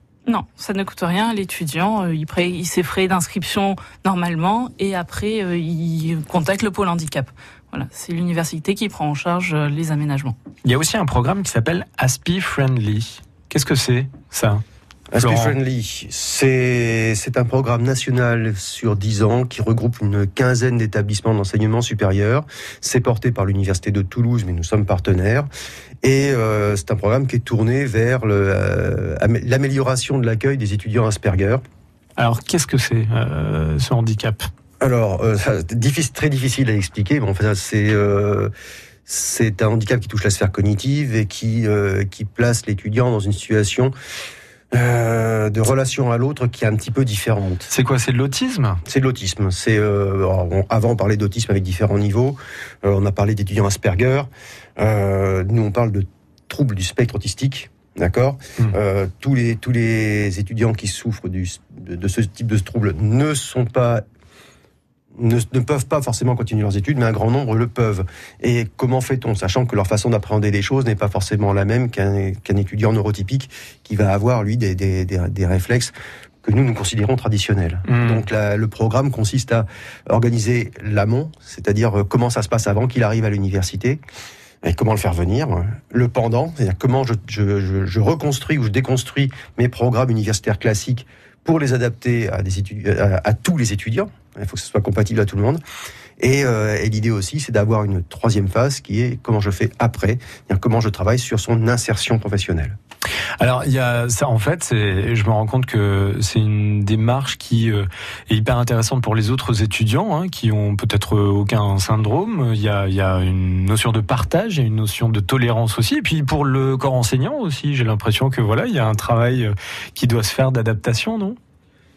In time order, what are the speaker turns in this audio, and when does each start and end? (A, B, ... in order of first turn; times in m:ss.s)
0:00.3-0:10.4 A
0:10.6-0:14.6 B
0:15.1-0:25.5 C
0:15.2-0:15.6 B
0:26.0-0:31.6 C
0:32.2-0:34.5 B
0:34.8-0:38.5 C
0:39.1-0:43.9 C
0:44.7-0:47.7 C
0:47.7-0:48.8 B
0:48.9-1:04.0 C
1:05.2-1:24.0 C
1:17.9-1:18.2 B
1:24.6-1:35.6 C
1:36.2-1:42.8 C
1:43.4-2:01.4 B